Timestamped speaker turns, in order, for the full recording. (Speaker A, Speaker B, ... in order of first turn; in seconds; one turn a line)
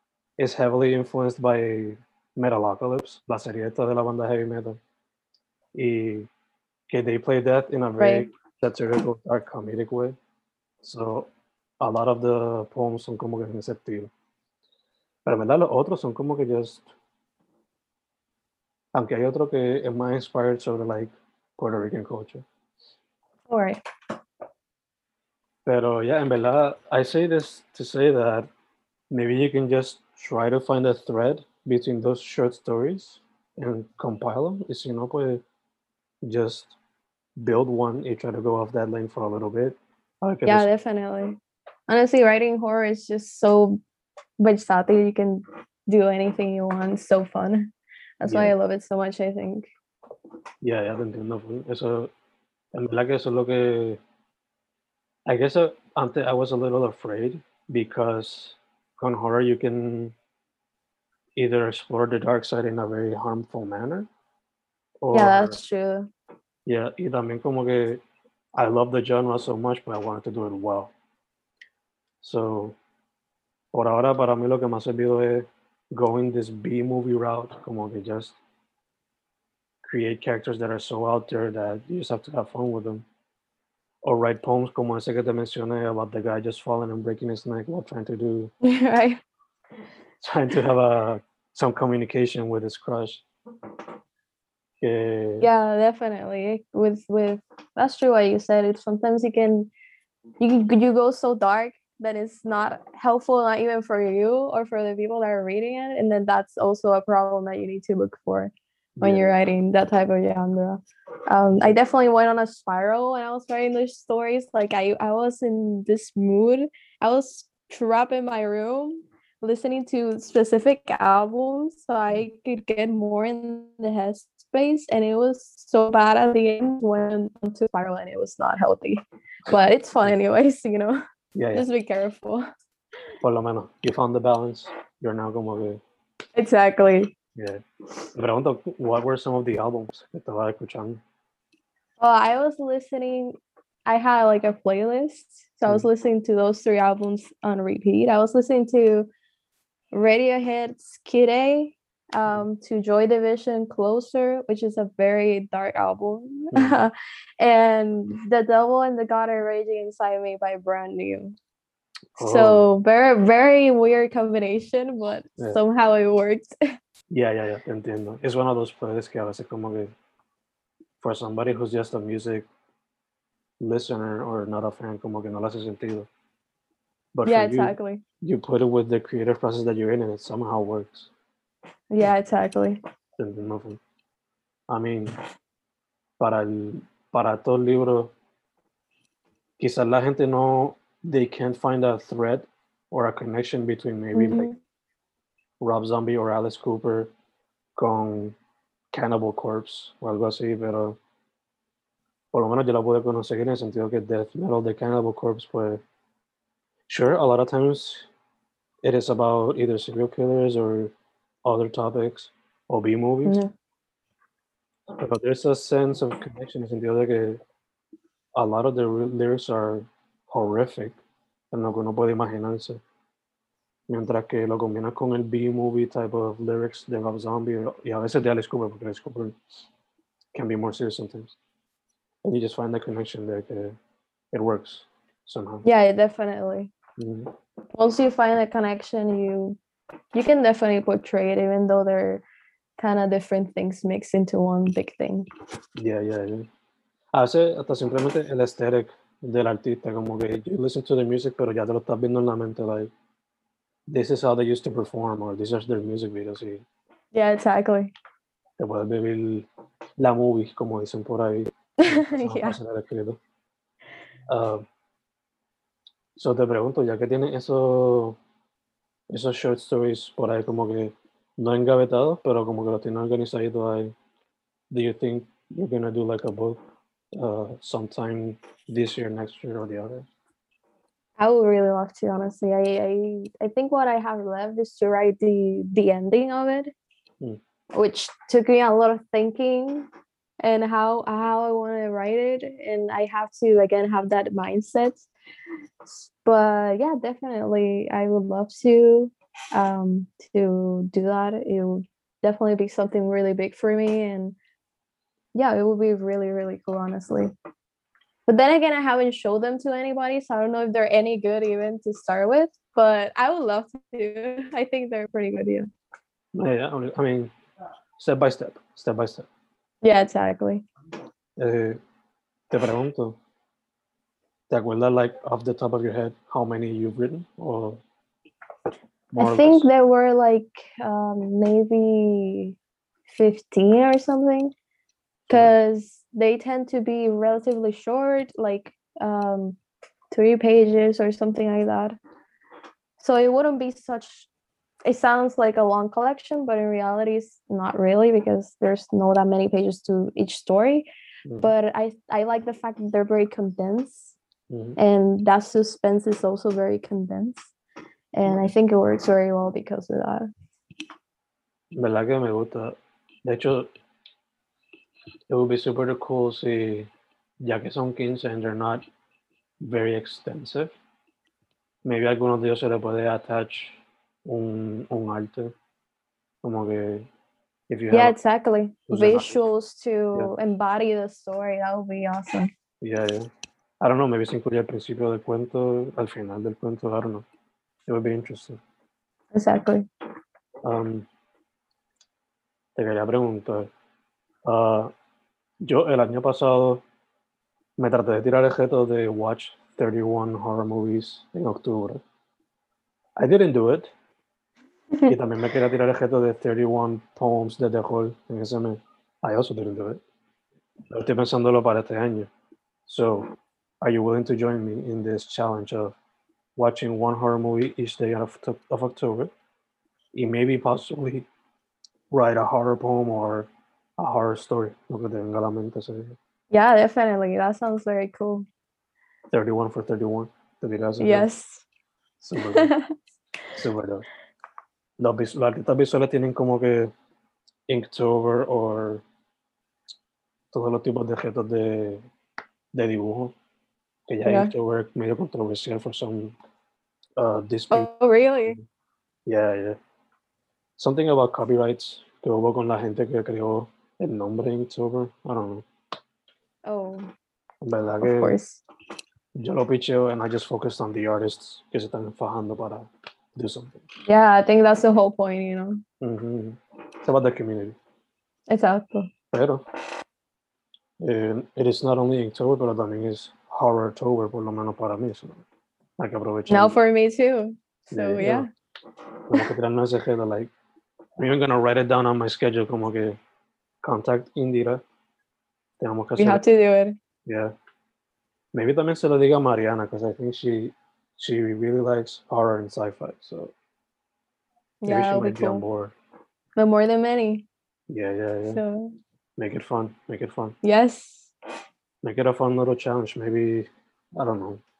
Speaker A: 0.4-4.8
Speaker A: 5.8-6.3
Speaker A: 6.9-10.2
Speaker B: 8.0-8.3
Speaker A: 10.8-11.3
Speaker A: 11.8-14.1
Speaker A: 15.2-16.9
Speaker A: 18.9-22.4
Speaker B: 23.5-23.8
Speaker A: 25.6-28.5
Speaker A: 29.1-35.4
Speaker A: 36.2-36.8
Speaker A: 37.4-40.7
Speaker B: 40.5-43.8
Speaker B: 44.4-49.7
Speaker A: 48.2-48.5
Speaker A: 50.6-52.1
Speaker A: 52.7-54.0
Speaker A: 55.3-60.1
Speaker A: 61.4-64.1
Speaker A: 65.0-65.6
Speaker B: 65.1-66.1
Speaker A: 66.7-68.0
Speaker A: 68.5-70.9
Speaker A: 72.2-72.8
Speaker A: 73.7-78.4
Speaker A: 79.8-83.0
Speaker A: 84.0-88.5
Speaker B: 88.6-89.2
Speaker A: 90.2-93.2
Speaker A: 94.8-95.5
Speaker B: 95.4-99.7
Speaker B: 100.4-131.0
Speaker A: 109.0-109.3
Speaker A: 131.3-131.7
Speaker B: 131.5-132.5
Speaker A: 133.2-135.8
Speaker B: 136.4-137.1
Speaker A: 137.4-137.6
Speaker A: 138.1-141.0
Speaker B: 142.0-143.4
Speaker B: 143.9-149.1
Speaker B: 149.9-161.3
Speaker A: 156.5-156.8
Speaker A: 162.2-162.7
Speaker B: 162.2-166.5
Speaker A: 167.1-169.9
Speaker A: 171.0-172.5
Speaker A: 173.6-176.1
Speaker A: 177.1-181.1
Speaker B: 177.2-178.0
Speaker B: 181.9-182.8
Speaker A: 183.2-183.8
Speaker A: 184.7-185.1
Speaker A: 186.2-188.1
Speaker A: 189.6-194.5
Speaker B: 194.1-194.6
Speaker A: 195.6-197.1
Speaker A: 197.8-198.4
Speaker A: 198.9-201.0
Speaker A: 202.3-205.8
Speaker A: 206.9-208.1
Speaker A: 208.8-210.9
Speaker A: 211.4-213.4
Speaker B: 213.2-213.5
Speaker A: 214.9-217.4
Speaker A: 218.4-221.0
Speaker A: 221.5-222.8
Speaker A: 223.9-229.4
Speaker A: 230.3-231.4
Speaker A: 232.2-233.8
Speaker A: 234.3-235.6
Speaker B: 235.6-236.7
Speaker A: 237.0-237.3
Speaker B: 237.7-239.6
Speaker B: 240.1-242.2
Speaker B: 242.8-245.3
Speaker A: 245.8-246.5
Speaker A: 247.1-252.9
Speaker A: 253.9-256.6
Speaker B: 257.1-257.9
Speaker A: 258.6-259.5
Speaker A: 260.0-263.2
Speaker B: 261.8-262.6
Speaker A: 264.3-264.6
Speaker A: 266.1-268.2
Speaker A: 269.1-273.9
Speaker A: 274.7-276.6
Speaker A: 277.1-280.1
Speaker B: 281.2-286.7
Speaker B: 287.7-289.9
Speaker B: 290.4-295.1
Speaker B: 295.9-304.4
Speaker B: 305.4-307.3
Speaker B: 308.2-315.7
Speaker A: 316.3-317.3
Speaker A: 318.0-319.3
Speaker B: 319.8-320.6
Speaker A: 321.4-321.8
Speaker A: 322.5-323.2
Speaker A: 324.5-327.8
Speaker A: 329.1-329.7
Speaker B: 329.2-332.6
Speaker B: 333.1-334.5
Speaker B: 335.3-339.6
Speaker B: 340.1-341.9
Speaker B: 343.0-344.3
Speaker B: 344.9-350.9
Speaker A: 351.2-351.5
Speaker B: 351.4-354.1
Speaker A: 354.5-354.8
Speaker B: 354.8-357.5
Speaker B: 358.1-360.3
Speaker A: 361.8-363.7
Speaker A: 365.3-366.9
Speaker A: 367.4-368.9
Speaker A: 369.6-370.7
Speaker A: 371.8-375.5
Speaker A: 376.4-377.1
Speaker A: 377.7-378.1
Speaker B: 377.9-382.5
Speaker A: 378.9-379.4
Speaker A: 382.8-383.3
Speaker A: 383.8-387.2
Speaker A: 387.9-388.6
Speaker B: 389.3-389.9
Speaker A: 390.6-391.1
Speaker A: 392.8-393.7
Speaker A: 394.5-394.9
Speaker A: 395.6-396.8
Speaker A: 397.8-402.0
Speaker A: 403.2-403.9
Speaker A: 405.1-410.0
Speaker A: 410.9-412.3
Speaker A: 412.9-416.0
Speaker A: 416.6-419.3
Speaker A: 420.1-421.3
Speaker A: 422.1-426.2
Speaker B: 426.5-428.5
Speaker A: 429.3-431.3
Speaker B: 431.0-431.6
Speaker A: 432.2-432.7
Speaker B: 432.4-432.9
Speaker A: 433.6-434.1
Speaker A: 435.0-436.9
Speaker A: 437.7-439.0
Speaker A: 440.5-442.0
Speaker A: 442.7-443.4
Speaker A: 444.1-446.4
Speaker B: 444.2-444.5
Speaker A: 447.2-447.9
Speaker B: 447.7-448.6
Speaker A: 449.3-449.8
Speaker A: 450.8-455.6
Speaker B: 456.6-457.1
Speaker A: 457.6-458.4
Speaker B: 458.0-458.6
Speaker A: 459.4-463.8
Speaker B: 464.1-465.8
Speaker A: 466.0-467.8
Speaker B: 468.5-469.1
Speaker A: 469.3-469.6
Speaker A: 471.0-475.4
Speaker A: 476.0-476.8
Speaker B: 476.5-478.5
Speaker A: 477.9-478.5
Speaker A: 479.3-480.5
Speaker A: 481.2-483.2
Speaker A: 483.8-484.8
Speaker A: 485.8-486.4
Speaker B: 486.2-486.9
Speaker A: 487.3-487.5
Speaker A: 488.5-493.5
Speaker B: 494.8-495.6
Speaker A: 494.9-495.9
Speaker B: 496.6-497.4
Speaker A: 497.9-498.6
Speaker B: 498.5-498.9
Speaker A: 499.4-500.6
Speaker B: 500.6-501.3
Speaker A: 502.0-504.6